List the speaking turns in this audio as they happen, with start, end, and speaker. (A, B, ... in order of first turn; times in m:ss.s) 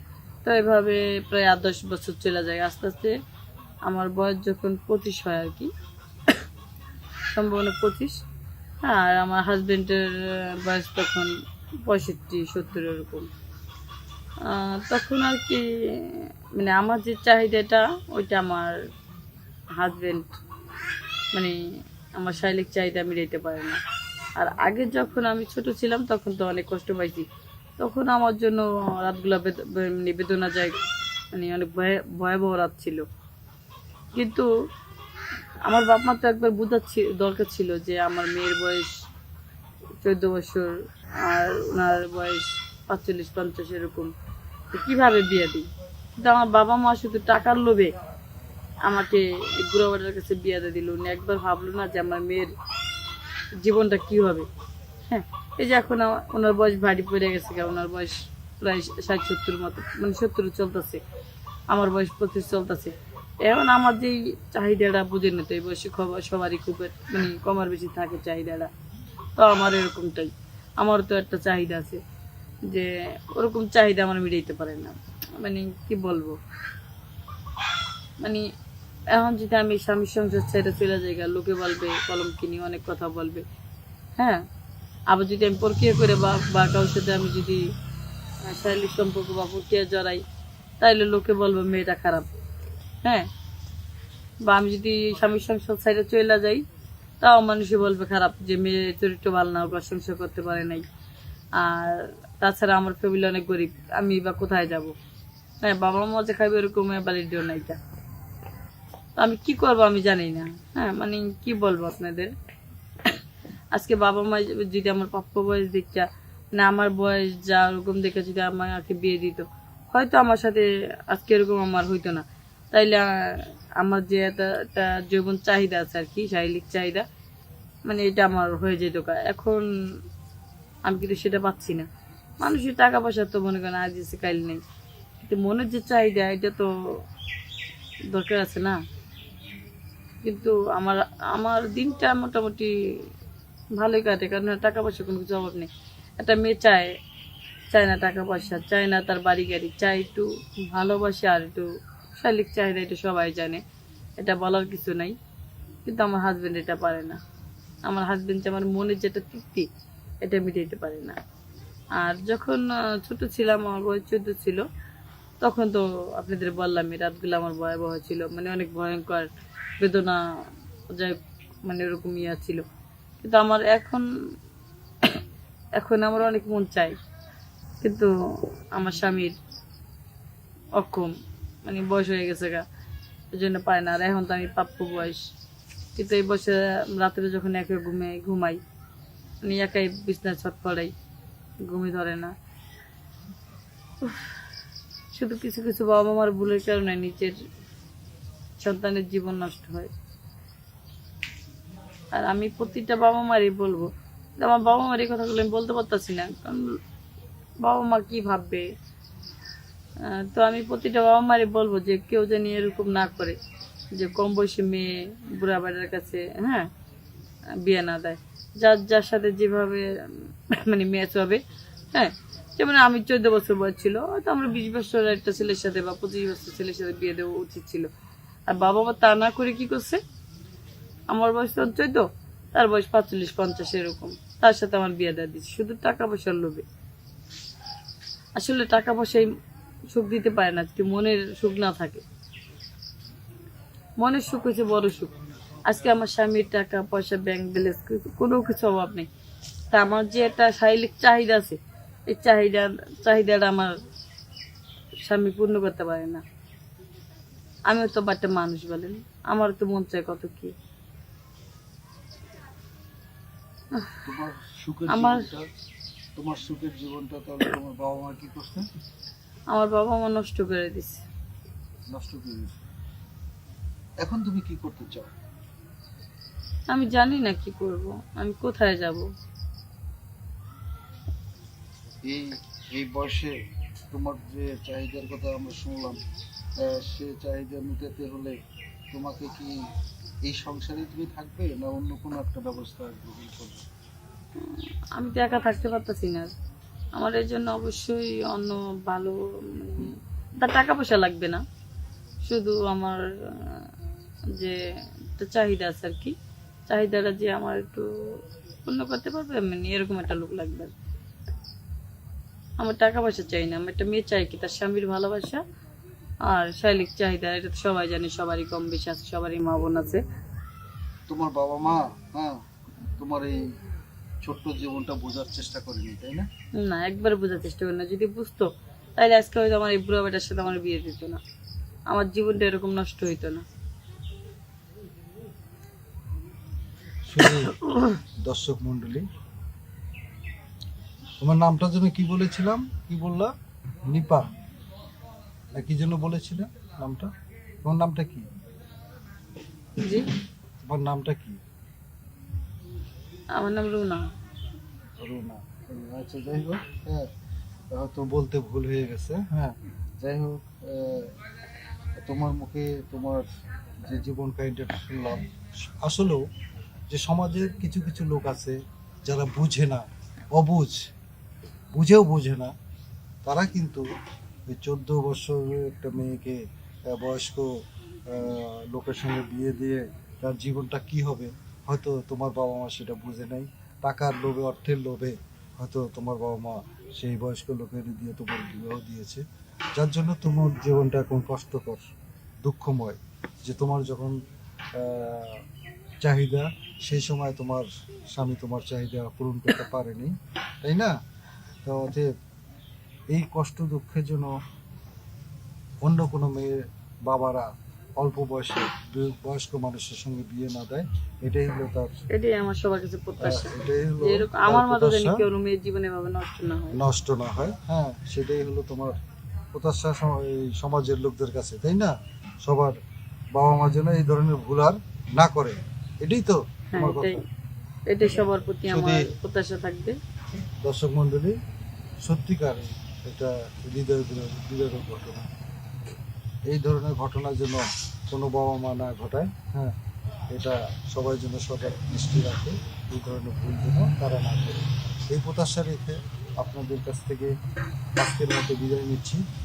0:00.4-0:03.1 A
0:03.8-0:05.7 A
0:07.3-0:08.2 A
0:08.8-0:11.3 A
0:11.8-0:13.3 A
0:14.4-0:18.8 A
0:19.8-0:20.3 A
0:22.1-0:23.8 A
0:24.4-0:27.2 A
0:27.8-0:30.8 A
0:31.3-0:33.0 A
0:34.2-0:34.5 A
0:35.6-0:38.9 A
0:40.0-0:44.1 A
0:44.7-0:47.9 A
0:48.8-0:52.5 A
0:53.6-0:54.5 A
0:55.1-1:01.0 A
1:01.7-1:08.7 A
1:09.4-1:12.0 A
1:12.7-1:16.4 A
1:19.1-1:23.4 A
1:24.2-1:24.4 A
1:25.1-1:27.6 A
1:28.4-1:30.2 A
1:30.8-1:32.3 A
1:34.4-1:36.6 A
1:37.2-1:40.8 A
1:41.6-1:44.9 A
1:45.6-1:47.8 A
1:49.2-1:52.3 A
1:53.7-2:07.0 A
2:07.8-2:09.6 A
2:10.8-2:11.9 A
2:12.4-2:14.6 A
2:15.2-2:16.7 A
2:18.1-2:18.8 A
2:20.2-2:22.7 A
2:23.8-2:26.9 A
2:27.7-2:33.6 A
2:34.2-2:35.1 A
2:35.8-2:37.2 A
2:37.8-2:39.7 A
2:40.2-2:41.2 A
2:42.0-2:44.6 A
2:45.4-2:49.3 A
2:49.8-2:50.2 A
2:50.9-2:52.6 A
2:53.2-2:54.0 A
2:55.8-2:57.0 A
2:57.8-2:58.1 A
2:58.7-2:59.4 A
3:00.8-3:01.1 A
3:01.6-3:02.6 A
3:03.3-3:05.2 A
3:06.0-3:08.6 A
3:09.4-3:10.9 A
3:11.6-3:12.3 A
3:14.0-3:14.3 A
3:15.1-3:17.4 A
3:18.6-3:19.9 A
3:22.1-3:26.7 A
3:27.6-3:28.6 A
3:30.0-3:33.4 A
3:34.0-3:36.7 A
3:37.6-3:41.4 A
3:41.9-3:47.9 A
3:48.5-3:50.0 A
3:51.1-3:56.6 A
3:58.4-3:59.3 A
3:59.9-4:02.0 A
4:04.0-4:05.1 A
4:05.6-4:09.1 A
4:09.7-4:13.8 A
4:15.0-4:16.2 A
4:17.7-4:20.5 A
4:23.7-4:24.0 A
4:24.0-4:25.5 B
4:24.9-4:25.3 A
4:26.2-4:28.6 B
4:29.5-4:31.0 A
4:31.9-4:32.6 B
4:34.0-4:35.1 B
4:36.7-4:39.0 A
4:42.1-4:43.3 B
4:43.9-4:46.0 B
4:46.6-4:48.3 B
4:48.9-4:49.5 B
4:50.2-4:53.6 B
4:54.4-4:56.3 A
4:57.0-5:01.4 A
5:02.2-5:03.7 A
5:05.2-5:06.1 A
5:06.7-5:10.7 A
5:12.6-5:15.4 A
5:16.2-5:20.0 A
5:21.1-5:22.4 B
5:23.0-5:23.4 B
5:24.2-5:26.3 B
5:26.6-5:31.2 A
5:31.9-5:33.4 A
5:37.1-5:37.6 B
5:37.3-5:38.0 A
5:38.2-5:39.0 B
5:41.2-5:43.3 B
5:43.9-5:44.2 B
5:45.5-5:47.1 B
5:47.6-5:48.2 B
5:49.8-5:50.0 A
5:50.6-5:51.4 B
5:53.3-5:54.0 A
5:55.0-5:57.1 B
5:57.7-6:01.1 B
6:02.0-6:03.2 B
6:03.8-6:06.2 B
6:06.9-6:10.8 B
6:11.7-6:12.5 B
6:13.2-6:13.8 B
6:14.5-6:17.5 B
6:18.1-6:29.2 B
6:29.8-6:31.8 B
6:32.4-6:34.2 B
6:34.7-6:35.4 B
6:36.0-6:40.9 B
6:41.6-6:42.1 B
6:43.1-6:44.3 B
6:45.8-6:51.9 B
6:52.1-6:56.8 A
6:53.2-6:55.2 B
6:56.7-6:59.0 B
6:59.5-7:02.7 B
7:03.3-7:07.2 B
7:06.7-7:07.2 A
7:07.9-7:09.9 A
7:08.7-7:09.1 B
7:10.6-7:11.4 B
7:12.0-7:15.3 B
7:16.5-7:19.8 B
7:20.3-7:27.3 B
7:28.0-7:29.2 B